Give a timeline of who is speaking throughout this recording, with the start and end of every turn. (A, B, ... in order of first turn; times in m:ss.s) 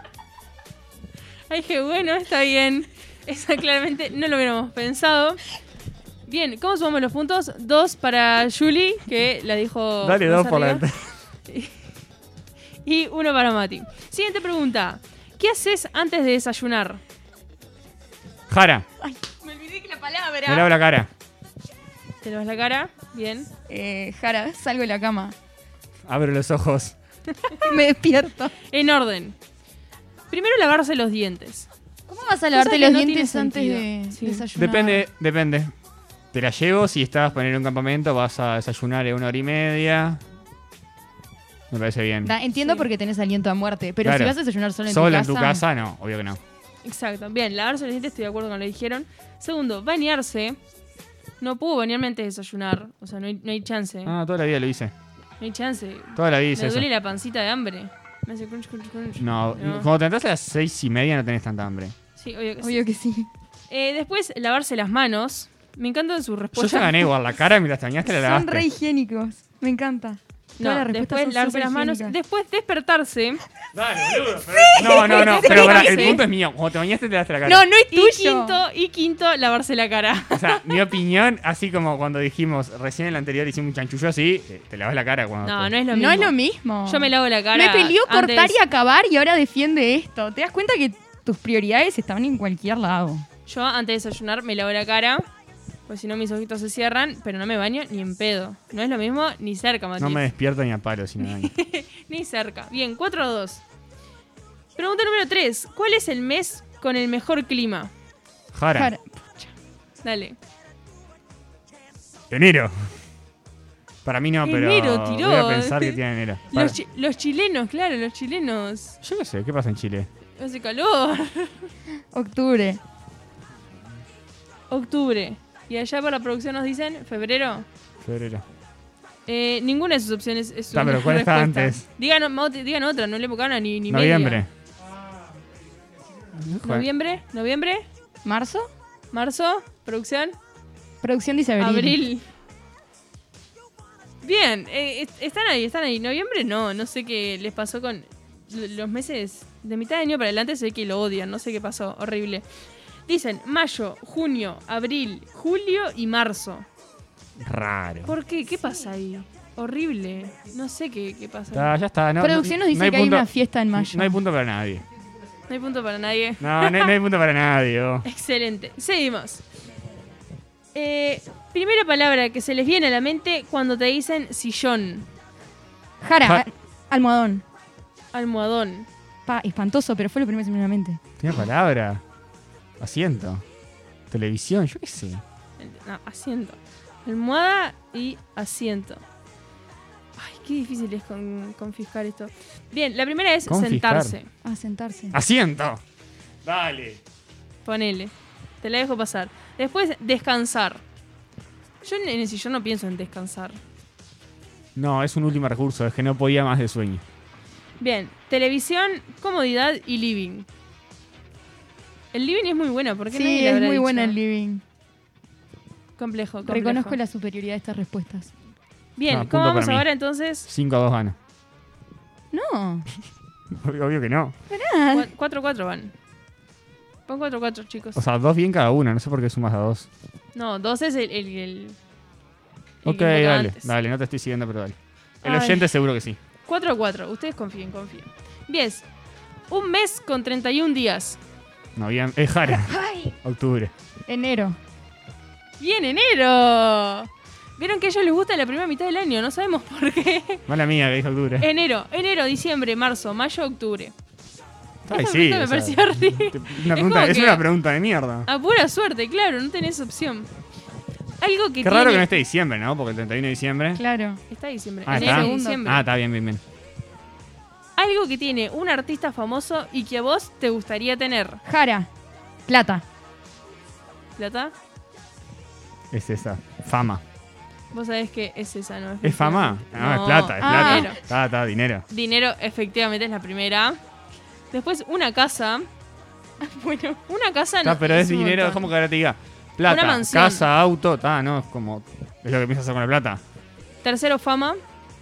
0:01.5-0:05.4 A
0:06.3-0:10.8 A
0:10.0-0:11.0 B
0:11.5-0:11.8 A
0:12.8-0:17.0 A
0:18.5-0:18.8 B
0:19.0-0:20.7 C
0:20.4-0:21.1 B
0:22.2-0:23.5 A
0:23.7-0:25.3 C
0:26.1-0:27.0 B
0:27.6-0:28.5 C
0:28.7-0:29.4 A
0:30.3-0:31.7 A
0:32.1-0:35.0 C
0:32.5-0:34.4 A
0:34.6-0:35.7 B
0:36.3-0:40.2 B
0:41.7-0:42.3 B
0:42.2-0:45.6 C
0:42.6-0:42.9 A
0:44.0-0:44.3 B
0:44.8-0:46.4 B
0:46.8-0:50.6 A
0:51.4-0:54.1 A
0:54.0-0:54.9 B
0:55.4-0:59.9 A
0:56.2-0:56.9 B
0:59.2-1:01.9 B
1:02.2-1:02.8 A
1:02.6-1:03.3 C
1:03.7-1:07.1 A
1:06.5-1:08.6 B
1:08.0-1:12.1 C
1:10.6-1:13.4 A
1:13.7-1:17.7 B
1:14.4-1:16.2 C
1:14.8-1:16.2 A
1:17.4-1:18.6 C
1:17.9-1:20.8 A
1:20.3-1:25.7 B
1:25.4-1:28.6 A
1:25.9-1:33.2 C
1:33.5-1:35.2 A
1:35.9-1:40.2 A
1:40.0-1:41.5 B
1:41.2-1:43.6 A
1:44.8-1:47.9 A
1:48.5-1:48.9 B
1:48.7-1:49.5 C
1:50.0-1:50.4 A
1:52.3-1:52.7 B
1:54.0-1:56.8 B
1:54.4-1:56.0 A
1:56.5-1:59.0 A
1:59.0-2:00.1 B
2:00.4-2:01.7 A
2:02.1-2:02.8 C
2:04.7-2:07.6 A
2:08.0-2:08.4 B
2:09.3-2:14.4 A
2:10.7-2:11.8 B
2:13.9-2:14.5 B
2:16.3-2:16.9 B
2:16.6-2:17.8 A
2:18.2-2:18.7 C
2:19.1-2:20.4 A
2:21.0-2:22.0 C
2:21.6-2:22.2 A
2:24.2-2:32.4 A
2:33.1-2:36.6 A
2:37.4-2:38.2 B
2:38.0-2:41.7 A
2:41.5-2:44.8 B
2:42.2-2:44.2 C
2:45.5-2:46.9 A
2:46.4-2:48.1 B
2:48.0-2:49.4 A
2:50.7-2:55.1 A
2:56.0-2:57.4 C
2:58.1-2:58.9 A
2:59.3-3:01.0 C
3:01.2-3:02.0 B
3:02.8-3:03.4 B
3:04.1-3:05.2 B
3:05.6-3:09.0 A
3:10.2-3:14.3 A
3:13.4-3:14.2 B
3:14.4-3:15.2 C
3:15.1-3:15.8 B
3:16.4-3:17.0 B
3:17.6-3:20.8 A
3:21.8-3:23.6 A
3:24.8-3:27.0 B
3:27.8-3:30.5 A
3:32.1-3:34.2 A
3:33.1-3:34.6 C
3:36.0-3:37.0 A
3:36.4-3:38.3 C
3:39.0-3:40.5 A
3:39.1-3:39.8 B
3:40.5-3:41.2 B
3:42.3-3:42.9 C
3:43.5-3:44.4 B
3:44.5-3:45.1 C
3:44.9-3:45.9 A
3:47.1-3:48.0 A
3:47.9-3:49.9 B
3:50.3-3:51.8 A
3:52.8-3:53.7 A
3:52.8-3:56.2 B
3:55.2-3:55.7 A
3:56.5-3:58.8 A
3:59.5-4:01.2 A
4:01.8-4:03.7 B
4:02.5-4:03.1 C
4:04.1-4:04.6 C
4:05.6-4:10.5 A
4:10.5-4:11.5 B
4:11.4-4:13.9 A
4:14.8-4:18.3 B
4:14.9-4:17.4 A
4:18.2-4:20.3 A
4:21.2-4:22.2 A
4:21.6-4:23.8 B
4:23.7-4:24.2 C
4:24.3-4:25.8 A
4:24.8-4:26.4 B
4:24.9-4:25.6 C
4:27.8-4:31.4 A
4:31.4-4:31.9 C
4:32.5-4:32.8 C
4:34.2-4:34.5 A
4:35.9-4:37.0 B
4:37.7-4:41.0 A
4:39.0-4:41.8 B
4:40.4-4:40.9 C
4:41.9-4:43.8 A
4:44.5-4:45.7 A
4:46.4-4:47.0 C
4:47.1-4:48.7 A
4:47.6-4:53.2 B
4:49.6-4:50.4 A
4:53.8-4:54.6 A